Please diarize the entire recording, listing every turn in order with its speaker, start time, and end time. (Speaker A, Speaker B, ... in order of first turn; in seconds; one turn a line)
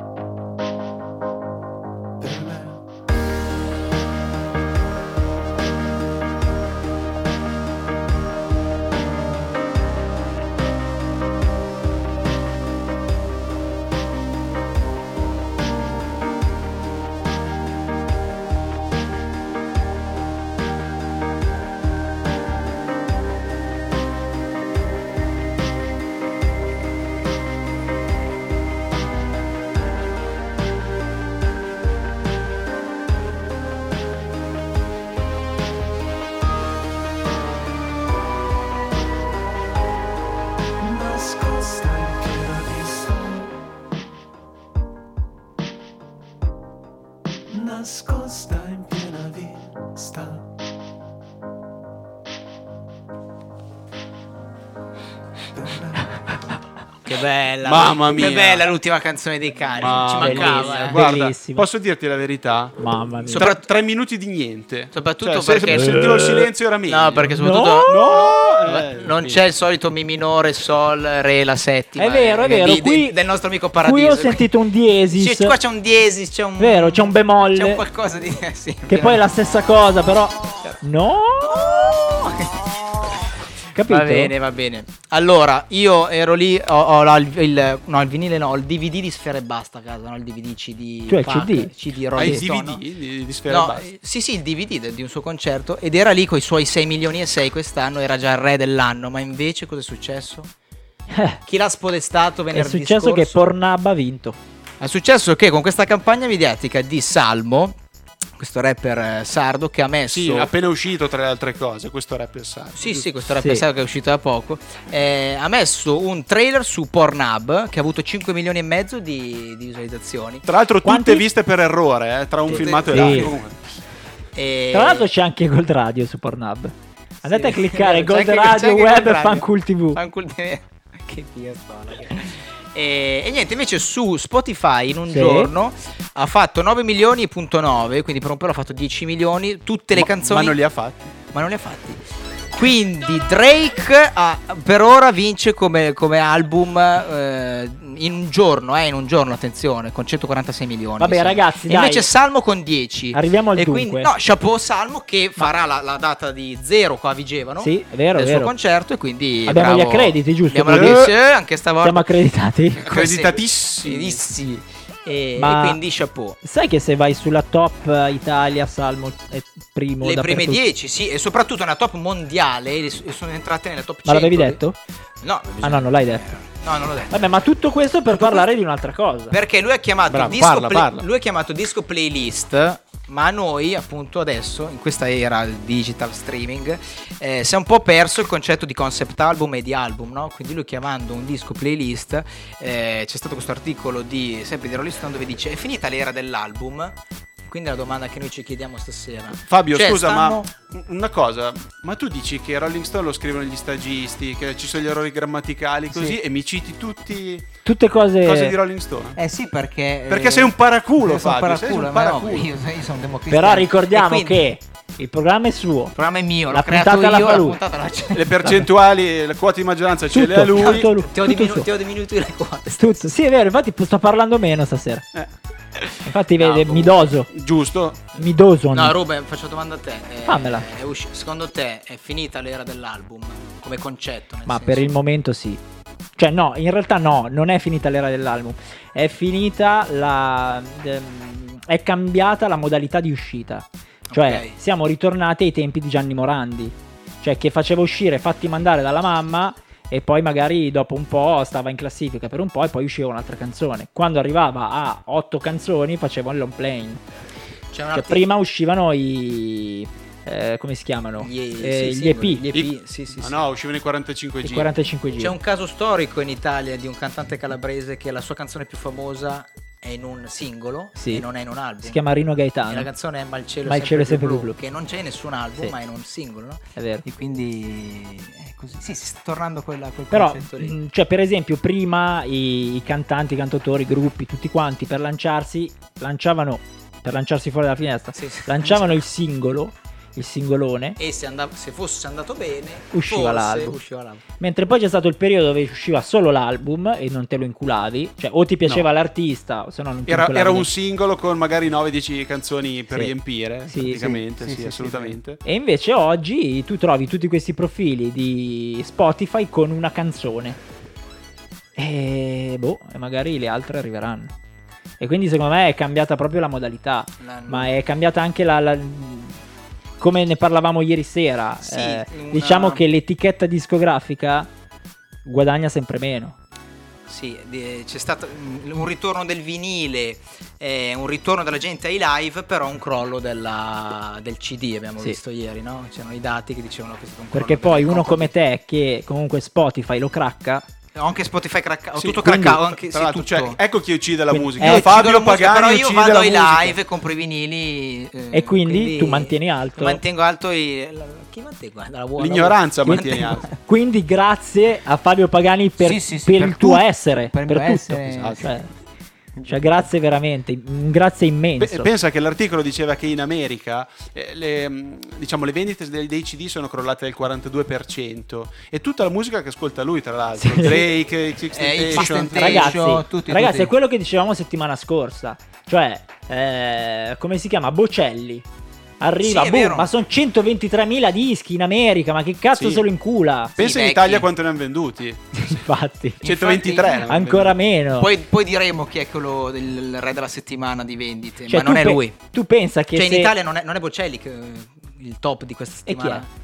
Speaker A: 2.2-2.8
Speaker A: 40.8-43.6
Speaker A: 47.5-50.5
Speaker A: 55.6-56.1
Speaker B: 57.0-61.0
Speaker C: 57.6-58.7
Speaker C: 59.8-67.3
Speaker D: 60.2-61.7
Speaker D: 62.8-63.5
Speaker B: 63.3-63.6
Speaker B: 64.9-66.2
Speaker D: 65.7-66.5
Speaker B: 66.9-74.5
Speaker D: 67.3-67.9
Speaker C: 67.9-69.4
Speaker D: 72.0-73.2
Speaker D: 73.8-75.6
Speaker B: 75.2-79.2
Speaker D: 76.6-77.8
Speaker D: 78.9-81.7
Speaker B: 81.4-83.2
Speaker D: 83.8-84.3
Speaker B: 83.8-92.8
Speaker D: 91.1-92.4
Speaker C: 92.2-93.9
Speaker B: 93.5-100.5
Speaker D: 101.1-101.4
Speaker B: 101.5-103.4
Speaker D: 102.5-104.4
Speaker B: 104.8-107.8
Speaker B: 108.4-110.5
Speaker C: 110.1-113.1
Speaker B: 112.8-120.5
Speaker C: 120.5-123.6
Speaker D: 120.8-121.2
Speaker B: 122.5-123.4
Speaker D: 122.5-123.3
Speaker B: 124.4-125.1
Speaker D: 124.7-130.0
Speaker B: 127.3-140.6
Speaker D: 135.1-135.5
Speaker C: 139.9-141.1
Speaker B: 141.3-142.0
Speaker B: 142.5-162.1
Speaker D: 151.0-152.1
Speaker D: 153.1-154.1
Speaker D: 157.6-158.5
Speaker D: 159.5-161.1
Speaker C: 160.7-161.1
Speaker D: 161.8-162.8
Speaker B: 162.8-166.4
Speaker C: 162.9-164.2
Speaker D: 165.4-165.8
Speaker D: 166.4-170.6
Speaker B: 170.0-174.6
Speaker D: 174.1-174.8
Speaker B: 175.2-177.2
Speaker D: 175.6-176.3
Speaker D: 177.1-179.3
Speaker B: 178.1-178.5
Speaker B: 179.3-197.0
Speaker C: 180.1-181.1
Speaker B: 197.5-200.5
Speaker C: 199.4-207.5
Speaker B: 205.9-206.2
Speaker D: 207.7-208.6
Speaker C: 208.2-209.2
Speaker B: 209.2-214.4
Speaker C: 210.1-212.5
Speaker D: 213.3-216.0
Speaker B: 216.0-218.5
Speaker D: 216.5-217.6
Speaker C: 218.1-220.9
Speaker D: 220.1-221.7
Speaker B: 220.6-223.1
Speaker D: 222.8-225.1
Speaker D: 226.0-227.3
Speaker B: 226.4-227.1
Speaker C: 227.3-228.1
Speaker D: 228.2-229.0
Speaker B: 228.7-234.9
Speaker D: 230.3-230.7
Speaker D: 234.5-235.6
Speaker D: 236.2-257.0
Speaker B: 244.1-244.5
Speaker B: 257.7-258.2
Speaker D: 257.9-262.4
Speaker B: 261.2-263.4
Speaker C: 262.5-264.7
Speaker D: 264.4-265.4
Speaker B: 265.2-272.0
Speaker D: 271.0-271.2
Speaker D: 271.8-272.9
Speaker B: 272.7-280.8
Speaker D: 273.7-274.6
Speaker D: 276.8-277.1
Speaker D: 280.1-291.0
Speaker B: 288.1-289.0
Speaker B: 291.0-294.2
Speaker D: 292.9-293.8
Speaker D: 294.4-300.7
Speaker C: 300.1-305.4
Speaker D: 303.7-304.2
Speaker D: 305.4-310.6
Speaker D: 311.8-314.3
Speaker D: 315.0-319.4
Speaker B: 317.2-317.7
Speaker D: 320.0-324.5
Speaker B: 321.6-322.8
Speaker D: 325.3-326.4
Speaker B: 327.1-338.3
Speaker D: 337.3-340.6
Speaker B: 340.9-343.6
Speaker C: 342.0-346.8
Speaker D: 342.2-342.5
Speaker D: 344.3-344.9
Speaker B: 344.6-353.6
Speaker D: 348.3-350.0
Speaker C: 352.2-353.5
Speaker D: 353.5-358.7
Speaker B: 355.8-358.5
Speaker C: 358.1-358.5
Speaker D: 359.5-361.9
Speaker C: 361.6-372.8
Speaker D: 370.4-370.9
Speaker B: 371.5-373.7
Speaker D: 371.9-378.4
Speaker D: 379.0-383.6
Speaker B: 379.2-379.9
Speaker C: 382.6-382.8
Speaker C: 383.6-385.6
Speaker B: 383.6-384.3
Speaker D: 385.4-386.2
Speaker C: 386.2-387.6
Speaker B: 386.2-387.1
Speaker D: 387.1-388.1
Speaker B: 388.0-392.1
Speaker D: 391.5-393.3
Speaker B: 392.9-396.3
Speaker D: 395.9-396.2